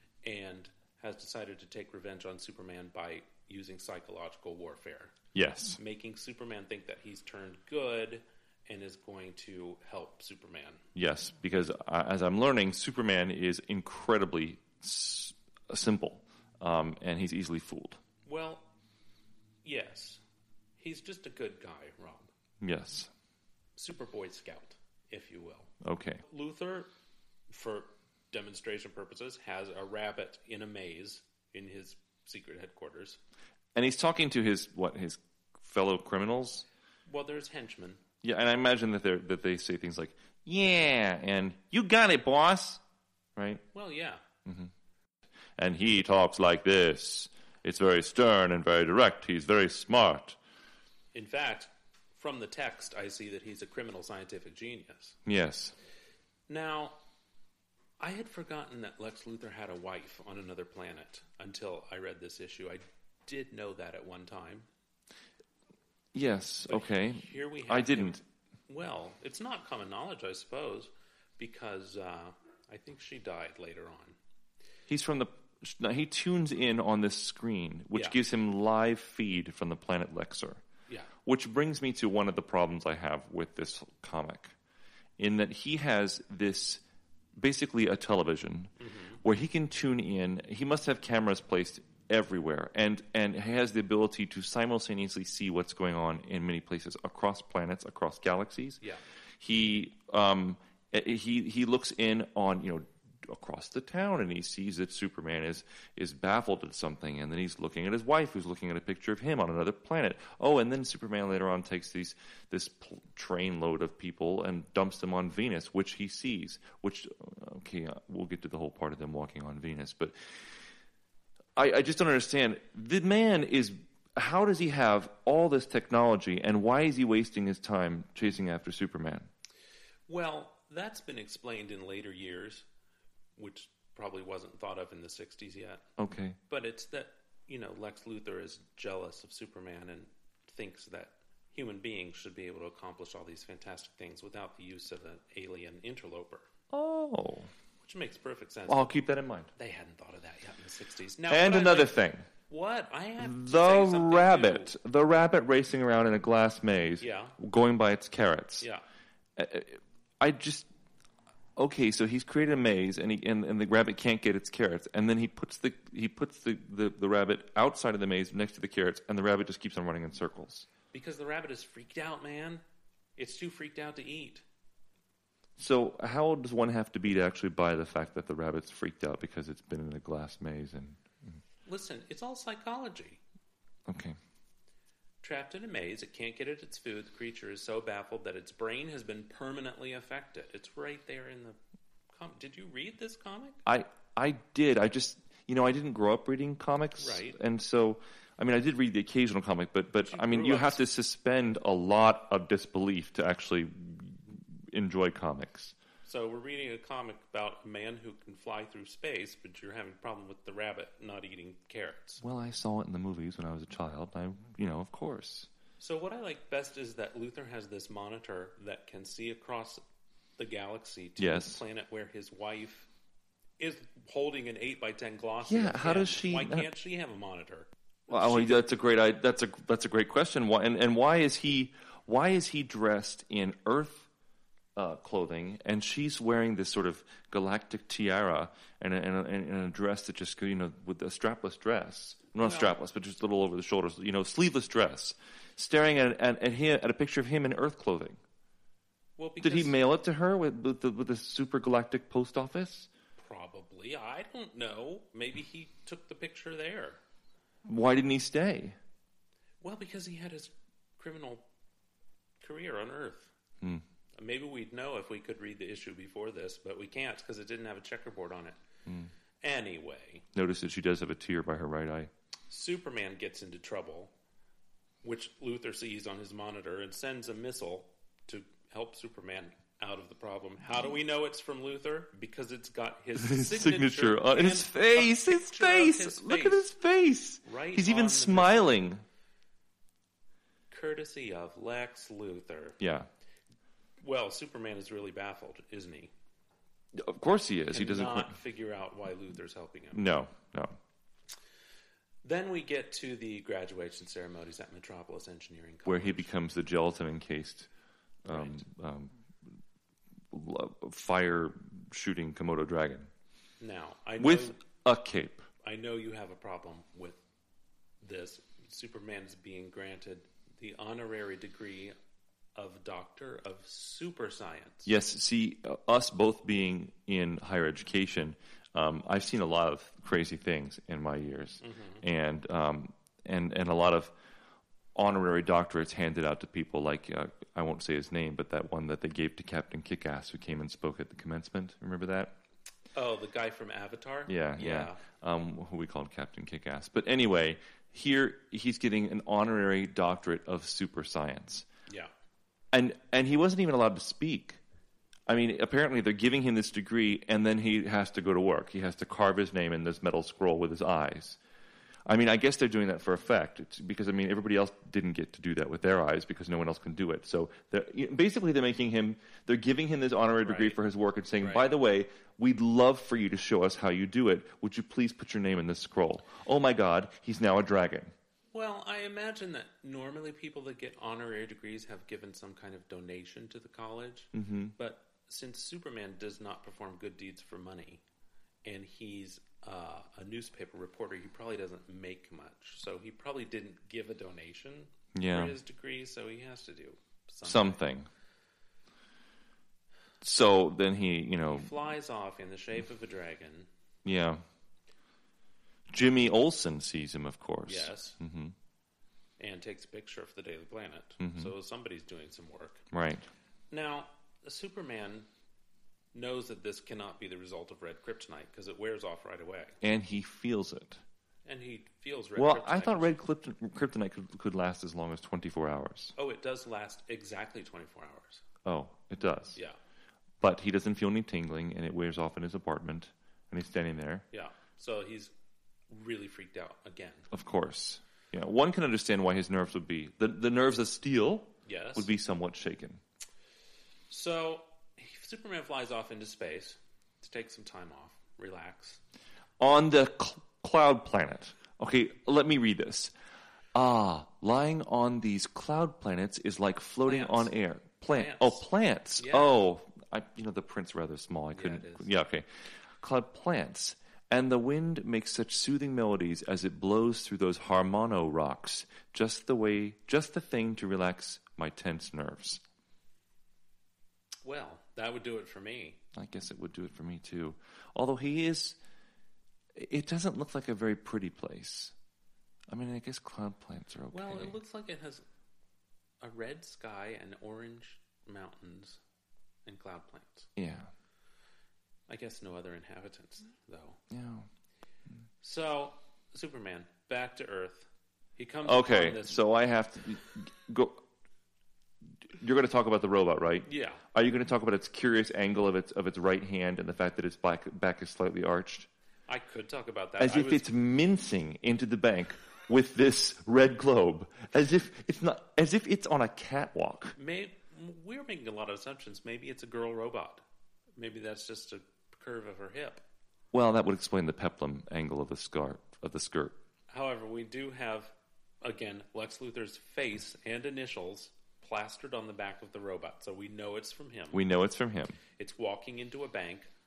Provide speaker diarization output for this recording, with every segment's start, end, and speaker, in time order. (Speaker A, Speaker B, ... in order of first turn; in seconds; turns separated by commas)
Speaker A: 0.2-5.1, Speaker B: 5.3-5.8, Speaker A: 5.7-10.8, Speaker B: 10.9-18.0, Speaker A: 18.2-18.7, Speaker A: 19.6-20.2, Speaker A: 20.8-22.3, Speaker B: 22.6-23.1, Speaker A: 23.8-25.7, Speaker B: 25.8-26.2, Speaker A: 26.2-26.9, Speaker A: 27.5-33.2, Speaker B: 33.7-36.6, Speaker A: 37.1-38.0, Speaker B: 38.2-42.8, Speaker B: 43.4-43.6, Speaker A: 43.7-44.2, Speaker B: 44.5-44.7, Speaker B: 45.6-50.4, Speaker A: 51.1-55.2, Speaker B: 55.2-55.7, Speaker A: 56.5-57.0, Speaker A: 58.0-64.7, Speaker B: 66.1-68.2, Speaker A: 66.7-74.2, Speaker B: 74.9-80.6, Speaker A: 77.9-78.2, Speaker B: 81.2-84.5, Speaker B: 85.2-86.8, Speaker B: 87.4-98.8, Speaker A: 88.8-89.2, Speaker B: 99.4-120.1, Speaker B: 121.5-129.3, Speaker A: 130.1-132.7, Speaker A: 133.4-135.8, Speaker B: 136.0-136.4, Speaker A: 136.5-146.5, Speaker B: 146.7-147.5, Speaker A: 147.8-148.9, Speaker B: 148.7-149.5, Speaker A: 149.5-154.7, Speaker B: 151.3-152.2, Speaker B: 153.2-158.7, Speaker A: 157.0-157.3, Speaker B: 159.3-160.7, Speaker B: 161.6-170.7, Speaker A: 170.9-172.6, Speaker A: 173.2-174.4, Speaker B: 175.6-181.4, Speaker A: 181.7-183.2, Speaker B: 183.9-184.2, Speaker A: 185.2-191.6, Speaker A: 192.1-193.6, Speaker B: 193.7-205.7, Speaker A: 197.0-197.4, Speaker A: 200.0-200.8, Speaker A: 206.0-212.2, Speaker B: 212.2-215.5, Speaker A: 215.8-219.8, Speaker A: 220.4-222.9, Speaker B: 221.2-221.6, Speaker A: 223.6-228.6, Speaker B: 225.4-226.7, Speaker B: 228.1-234.1, Speaker B: 234.8-248.2, Speaker A: 242.4-242.7, Speaker A: 249.2-249.8, Speaker B: 249.4-252.9, Speaker A: 253.2-257.0, Speaker B: 257.6-258.8, Speaker A: 259.6-261.4, Speaker A: 262.4-263.3, Speaker A: 264.2-268.6, Speaker A: 269.4-270.2, Speaker B: 270.3-272.1, Speaker A: 272.5-274.1, Speaker A: 275.0-286.7, Speaker B: 283.2-289.0, Speaker A: 287.4-288.8, Speaker A: 290.7-292.8, Speaker B: 292.8-293.1, Speaker A: 294.0-296.1, Speaker B: 296.9-298.4, Speaker A: 297.7-300.1, Speaker B: 299.9-300.8, Speaker A: 302.2-306.3, Speaker B: 305.9-307.7, Speaker B: 308.2-309.1, Speaker A: 308.3-308.6, Speaker B: 310.3-313.1, Speaker A: 313.6-314.6, Speaker B: 314.2-315.4, Speaker A: 315.6-317.2, Speaker A: 318.0-321.9, Speaker A: 322.5-324.9, Speaker B: 324.9-334.1, Speaker A: 331.6-332.0, Speaker B: 334.9-342.3, Speaker A: 342.9-345.0, Speaker B: 344.3-351.7, Speaker B: 352.7-354.6, Speaker B: 355.3-361.4, Speaker B: 362.1-378.1, Speaker A: 370.4-370.8, Speaker A: 371.4-371.7, Speaker A: 378.5-388.0, Speaker B: 384.3-384.7, Speaker A: 388.6-397.8, Speaker B: 395.1-395.5, Speaker B: 397.4-398.1, Speaker B: 400.2-401.7, Speaker A: 401.5-403.7, Speaker B: 404.0-404.4, Speaker B: 405.9-408.5, Speaker A: 407.7-408.2, Speaker A: 409.4-412.9, Speaker B: 411.2-411.5, Speaker B: 412.9-413.2, Speaker A: 413.7-415.3, Speaker A: 416.1-419.8, Speaker B: 419.8-421.0, Speaker A: 421.4-423.1, Speaker B: 422.4-426.1, Speaker A: 426.1-428.4, Speaker B: 428.6-429.6, Speaker B: 430.4-434.2, Speaker A: 434.3-435.3, Speaker A: 435.9-437.3, Speaker B: 437.3-443.0, Speaker A: 441.6-442.1, Speaker A: 444.1-449.0, Speaker B: 449.6-453.1, Speaker B: 453.7-462.4, Speaker A: 457.1-457.5, Speaker A: 458.1-458.6, Speaker A: 459.2-459.6, Speaker A: 461.5-462.1, Speaker B: 463.0-472.6, Speaker A: 474.4-476.0, Speaker B: 476.1-478.8, Speaker B: 479.7-481.9, Speaker B: 482.7-484.6, Speaker A: 484.1-485.2, Speaker A: 486.2-489.0, Speaker A: 489.6-490.5, Speaker B: 490.6-490.9, Speaker A: 492.1-494.0, Speaker B: 494.1-494.5, Speaker A: 495.4-499.4, Speaker B: 498.6-501.0, Speaker B: 502.3-508.9, Speaker A: 503.6-504.0, Speaker A: 509.3-510.6, Speaker B: 510.2-517.1, Speaker A: 517.2-520.4, Speaker A: 521.0-523.0, Speaker B: 523.5-526.6, Speaker A: 526.9-534.4, Speaker B: 534.3-535.2, Speaker A: 535.4-536.7